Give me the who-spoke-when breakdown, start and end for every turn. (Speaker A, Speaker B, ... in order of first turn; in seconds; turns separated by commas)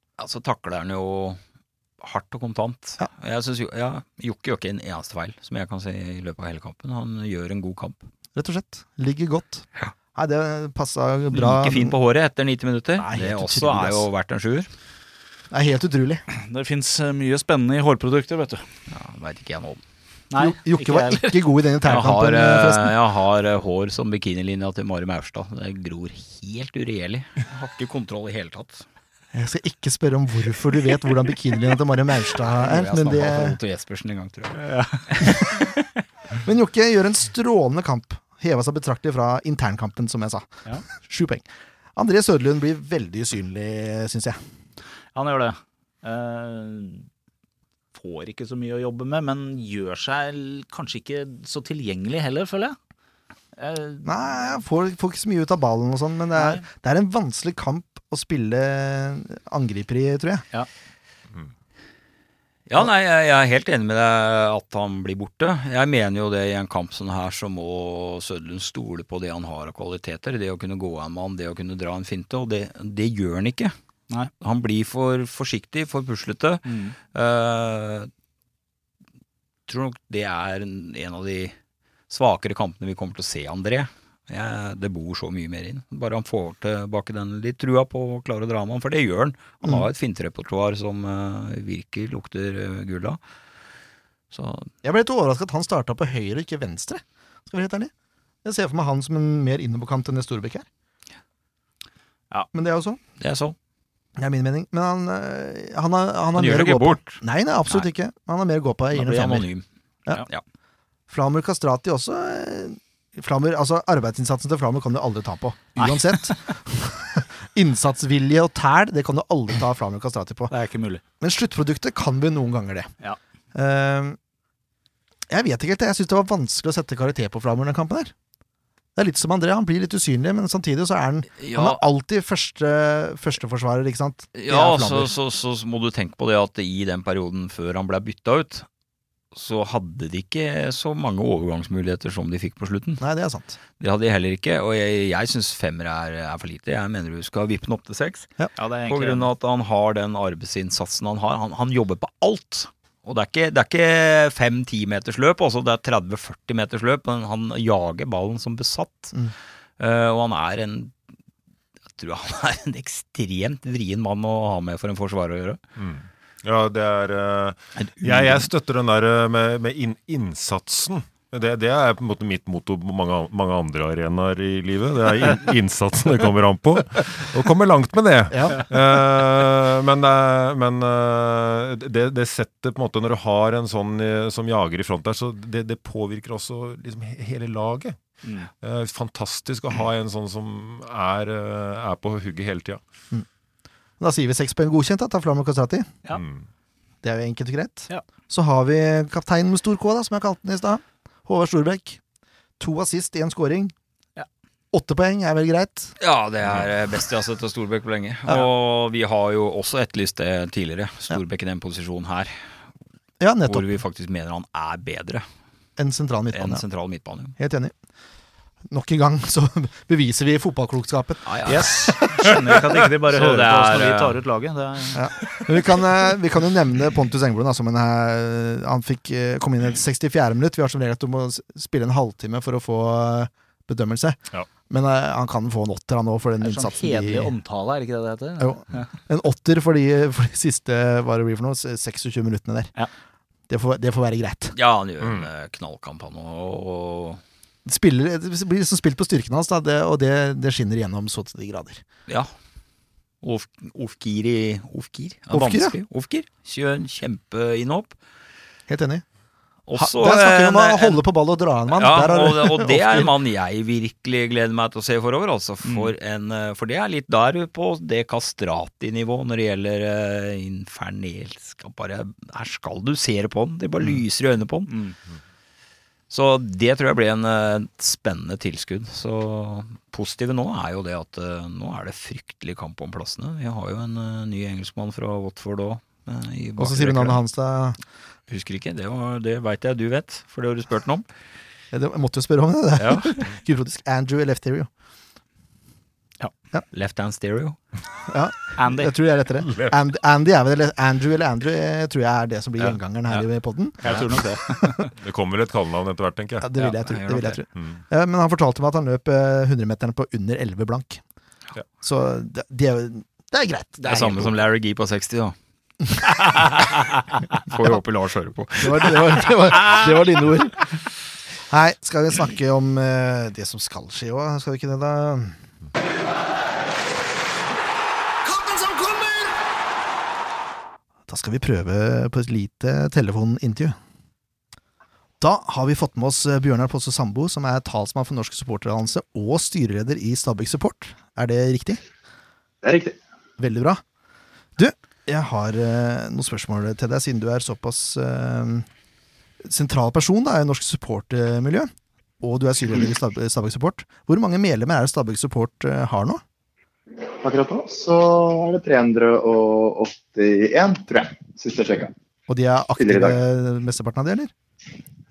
Speaker A: 0.2-1.4, Speaker A: 2.0-8.0, Speaker B: 8.3-11.9, Speaker A: 11.3-14.7, Speaker B: 13.0-14.1, Speaker B: 15.5-16.2, Speaker C: 16.3-18.6, Speaker A: 18.9-19.8, Speaker C: 20.3-21.4, Speaker B: 20.4-22.9, Speaker A: 21.8-28.8, Speaker B: 29.3-33.6, Speaker A: 32.3-35.8, Speaker C: 34.5-35.6, Speaker B: 36.4-44.4, Speaker C: 45.1-47.1, Speaker C: 47.9-52.8, Speaker C: 53.5-54.5, Speaker B: 54.0-60.4, Speaker C: 56.4-56.6, Speaker A: 62.7-73.7, Speaker A: 74.4-78.1, Speaker C: 76.7-77.0, Speaker A: 79.7-81.5, Speaker A: 82.1-93.2, Speaker A: 94.3-94.7, Speaker B: 94.8-97.9, Speaker B: 98.4-100.7, Speaker B: 102.5-103.0, Speaker A: 103.2-103.5, Speaker B: 104.2-109.5, Speaker A: 106.3-107.8, Speaker A: 108.9-109.6, Speaker B: 111.1-120.5, Speaker C: 115.8-116.1, Speaker C: 120.5-121.0, Speaker B: 121.2-122.9, Speaker B: 123.5-124.2, Speaker B: 125.3-128.1, Speaker B: 128.9-135.1, Speaker A: 131.4-131.8, Speaker A: 134.3-138.7, Speaker A: 139.3-143.0, Speaker B: 143.0-143.6, Speaker A: 143.8-148.3, Speaker C: 148.6-149.3, Speaker A: 148.9-159.1, Speaker A: 159.8-160.9, Speaker A: 161.9-165.6, Speaker D: 165.8-188.0, Speaker A: 167.8-168.5, Speaker B: 178.3-178.7, Speaker C: 188.2-188.5, Speaker D: 188.6-192.8, Speaker B: 194.0-195.9, Speaker D: 196.1-196.4, Speaker B: 197.0-202.0, Speaker B: 202.6-203.7, Speaker B: 204.7-205.9, Speaker A: 206.0-212.3, Speaker B: 213.2-213.6, Speaker A: 213.5-215.2, Speaker B: 215.8-216.6, Speaker A: 216.3-217.3, Speaker B: 217.4-217.7, Speaker B: 218.7-221.3, Speaker A: 221.2-221.9, Speaker C: 221.4-225.0, Speaker D: 222.4-222.7, Speaker A: 223.1-224.2, Speaker B: 224.9-237.3, Speaker C: 236.4-238.9, Speaker B: 238.4-242.7, Speaker B: 243.5-244.6, Speaker A: 244.5-247.2, Speaker D: 245.0-245.3, Speaker B: 247.7-251.8, Speaker A: 253.2-257.9, Speaker B: 255.3-255.8, Speaker B: 258.7-259.0, Speaker A: 259.6-261.0, Speaker B: 259.7-263.1, Speaker A: 261.7-274.7, Speaker C: 265.6-265.9, Speaker C: 274.7-274.9, Speaker A: 276.1-287.2, Speaker B: 286.6-287.8, Speaker A: 288.3-291.1, Speaker B: 291.7-294.7, Speaker A: 292.8-293.1, Speaker A: 296.7-297.6, Speaker B: 298.1-304.8, Speaker C: 298.6-298.9, Speaker D: 299.4-299.7, Speaker C: 303.8-304.9, Speaker D: 304.9-306.4, Speaker B: 306.4-311.0, Speaker A: 306.5-307.4, Speaker D: 307.5-307.8, Speaker B: 311.8-314.3, Speaker A: 313.8-315.3, Speaker A: 316.2-316.8, Speaker A: 317.3-319.9, Speaker B: 318.6-320.5, Speaker B: 321.5-325.4, Speaker B: 328.2-329.3, Speaker B: 331.1-333.8, Speaker B: 335.2-341.8, Speaker E: 342.6-342.9, Speaker B: 343.4-343.8, Speaker B: 344.6-348.6, Speaker B: 349.4-351.7, Speaker B: 352.2-356.2, Speaker E: 357.2-361.9, Speaker B: 362.3-364.3, Speaker E: 362.8-363.2